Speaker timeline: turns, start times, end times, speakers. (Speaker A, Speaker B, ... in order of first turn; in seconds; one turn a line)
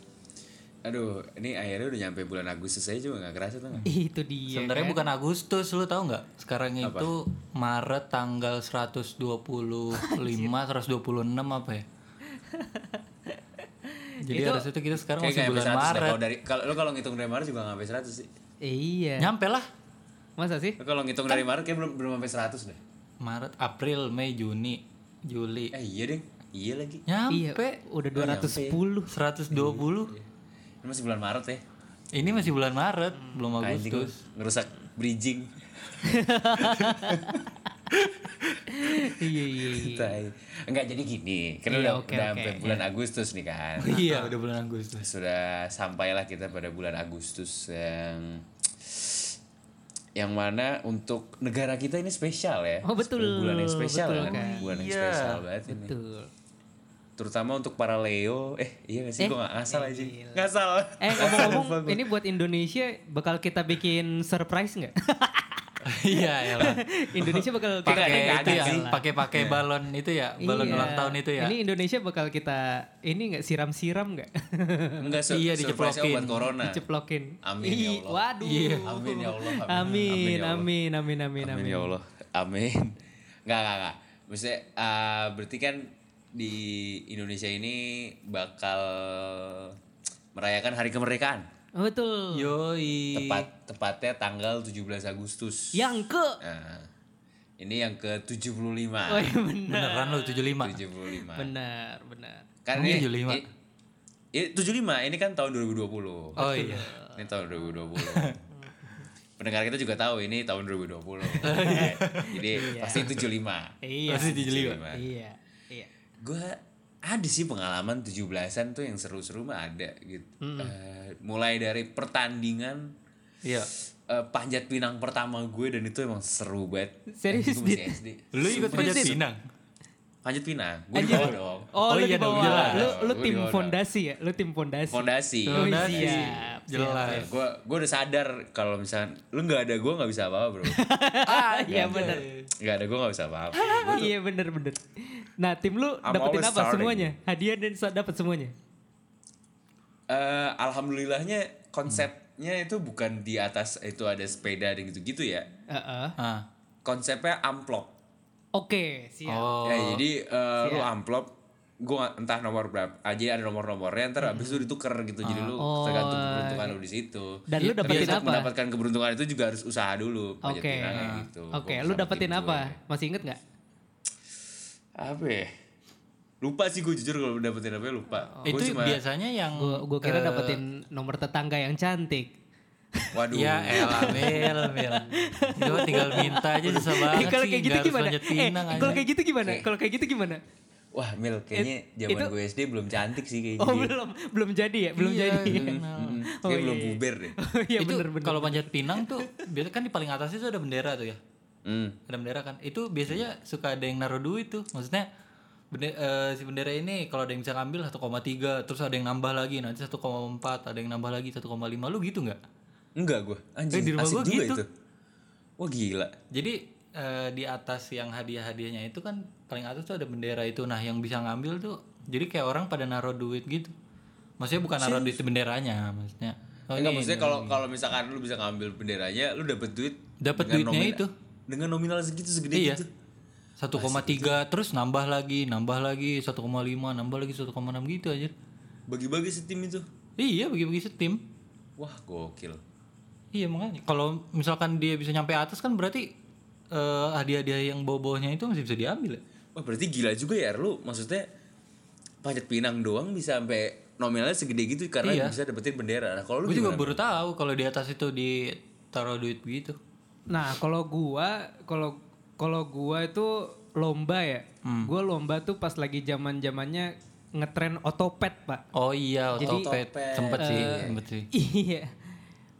Speaker A: 0.8-3.9
Speaker B: 3.9-5.0
Speaker C: 4.5-11.8
Speaker A: 6.8-7.1
Speaker B: 9.9-10.5
Speaker B: 12.3-14.6
Speaker C: 14.2-16.2
Speaker A: 15.2-18.3
Speaker B: 18.6-19.3
Speaker C: 19.2-19.7
Speaker B: 20.4-20.8
Speaker A: 20.8-22.8
Speaker C: 23.2-25.7
Speaker A: 25.7-27.1
Speaker C: 27.1-27.8
Speaker B: 27.3-29.1
Speaker A: 28.1-28.8
Speaker C: 29.1-30.1
Speaker A: 29.5-30.3
Speaker A: 30.8-31.6
Speaker C: 32.1-34.2
Speaker A: 32.2-32.5
Speaker B: 33.2-33.5
Speaker A: 33.6-36.0
Speaker B: 36.0-37.4
Speaker A: 36.5-37.5
Speaker B: 38.7-40.2
Speaker A: 39.6-44.0
Speaker B: 41.7-42.8
Speaker C: 43.8-45.1
Speaker B: 43.9-44.3
Speaker A: 45.0-49.4
Speaker A: 50.1-55.9
Speaker B: 52.8-54.6
Speaker C: 54.2-55.4
Speaker B: 55.7-56.3
Speaker A: 57.2-62.0
Speaker B: 59.2-60.5
Speaker B: 61.0-69.0
Speaker C: 65.8-71.5
Speaker A: 67.8-69.6
Speaker B: 70.4-75.0
Speaker A: 70.6-70.9
Speaker A: 75.0-76.8
Speaker C: 75.3-76.5
Speaker B: 76.6-81.9
Speaker A: 77.4-78.2
Speaker C: 78.4-78.9
Speaker A: 78.7-80.7
Speaker A: 81.4-89.8
Speaker A: 90.3-91.5
Speaker B: 91.8-92.5
Speaker C: 92.3-93.4
Speaker A: 93.1-95.9
Speaker B: 95.7-96.4
Speaker A: 96.4-96.9
Speaker A: 97.6-99.4
Speaker B: 99.1-100.5
Speaker C: 99.7-100.8
Speaker A: 100.6-101.5
Speaker B: 101.2-102.5
Speaker A: 102.6-103.4
Speaker C: 102.7-103.4
Speaker A: 104.3-108.4
Speaker C: 106.4-106.9
Speaker B: 106.4-107.2
Speaker C: 108.0-108.3
Speaker B: 108.5-109.1
Speaker A: 109.4-115.0
Speaker B: 111.3-113.1
Speaker C: 111.4-113.1
Speaker B: 113.8-115.9
Speaker C: 114.1-114.8
Speaker A: 116.2-122.9
Speaker B: 120.4-120.7
Speaker C: 123.4-123.7
Speaker A: 124.1-129.2
Speaker B: 127.1-129.2
Speaker C: 128.3-129.4
Speaker A: 130.2-131.7
Speaker B: 130.9-137.2
Speaker C: 131.0-131.4
Speaker C: 131.9-132.9
Speaker A: 132.3-133.8
Speaker A: 134.9-140.8
Speaker C: 135.5-137.2
Speaker B: 140.7-142.2
Speaker C: 141.2-142.5
Speaker A: 141.7-144.1
Speaker B: 143.5-148.5
Speaker A: 146.0-147.1
Speaker A: 150.1-155.5
Speaker B: 155.7-156.1
Speaker C: 156.2-156.4
Speaker A: 156.8-157.9
Speaker B: 158.6-159.6
Speaker C: 159.3-160.0
Speaker A: 159.6-172.8
Speaker B: 160.6-160.9
Speaker B: 164.2-164.7
Speaker C: 165.2-165.5
Speaker B: 165.6-166.8
Speaker B: 167.5-168.5
Speaker C: 167.6-168.3
Speaker B: 170.4-173.4
Speaker C: 170.9-171.3
Speaker A: 174.9-175.5
Speaker A: 176.4-179.0
Speaker B: 178.1-178.6
Speaker C: 178.5-180.6
Speaker B: 179.6-182.3
Speaker A: 183.1-184.6
Speaker C: 183.3-189.0
Speaker B: 183.7-190.4
Speaker A: 185.6-187.4
Speaker A: 188.7-189.7
Speaker A: 190.9-193.9
Speaker B: 191.5-192.3
Speaker B: 193.6-195.7
Speaker C: 195.0-196.2
Speaker A: 195.5-197.3
Speaker B: 196.4-199.3
Speaker C: 197.8-201.2
Speaker A: 201.6-202.0
Speaker C: 202.1-205.1
Speaker C: 205.7-212.4
Speaker A: 213.0-214.7
Speaker C: 213.7-214.6
Speaker A: 215.6-216.1
Speaker C: 216.3-223.7
Speaker C: 224.4-227.6
Speaker A: 224.8-225.2
Speaker A: 226.7-232.9
Speaker C: 230.2-231.1
Speaker C: 232.5-232.8
Speaker C: 233.6-238.3
Speaker A: 233.7-234.4
Speaker A: 238.9-239.9
Speaker C: 240.2-241.2
Speaker A: 241.8-242.6
Speaker C: 243.3-246.1
Speaker C: 246.7-249.2
Speaker A: 249.5-251.3
Speaker A: 252.2-257.0
Speaker C: 255.0-255.3
Speaker C: 256.4-259.8
Speaker B: 260.3-268.6
Speaker C: 264.6-264.9
Speaker C: 268.7-271.3
Speaker A: 269.3-271.0
Speaker B: 269.4-269.7
Speaker B: 270.4-271.9